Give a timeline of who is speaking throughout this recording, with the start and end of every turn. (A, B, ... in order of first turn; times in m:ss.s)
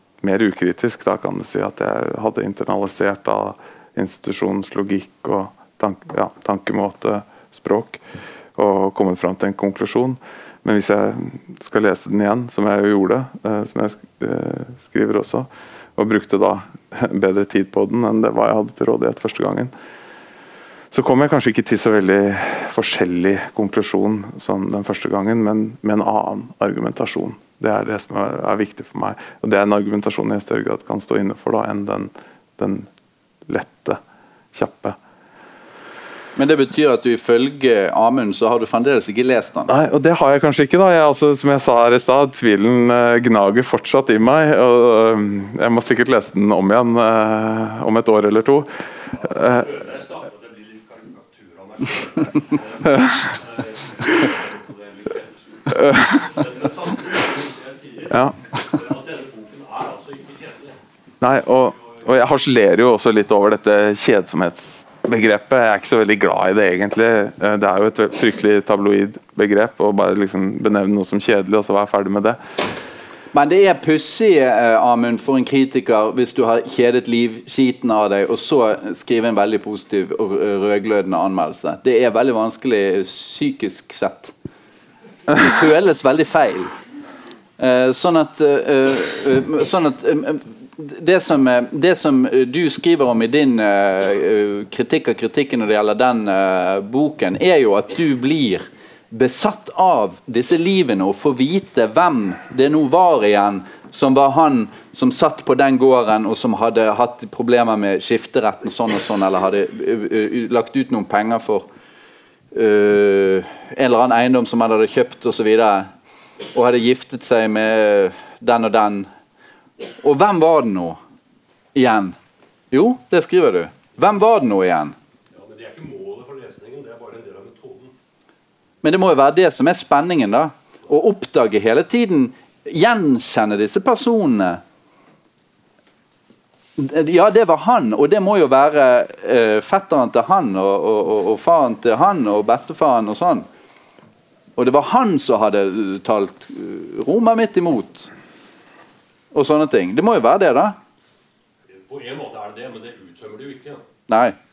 0:00.2-0:08.0 A
0:08.6-0:19.7 A
0:20.9-0:32.9 A
0:33.5-0:34.0 A
0:34.5-0:35.0 A
0:36.4-0:39.7 B
0:39.7-0:49.7 A
0:49.1-1:00.8 C
0:55.8-0:56.1 A
0:58.1-0:58.4 A
1:01.2-1:12.4 A
1:01.6-1:02.0 C
1:13.3-1:24.3 B
1:25.3-1:26.7 B
1:27.6-1:51.7 B
1:52.5-1:55.9 B
1:56.5-1:59.1 B
2:00.0-2:01.0 B
2:01.8-2:02.2 B
2:02.7-2:05.0 B
2:05.3-2:07.9 C
2:08.8-2:14.6 B
2:16.8-2:23.5 B
2:24.6-2:28.1 B
2:29.3-2:30.8 B
2:31.7-2:33.8 C
2:34.1-2:34.4 B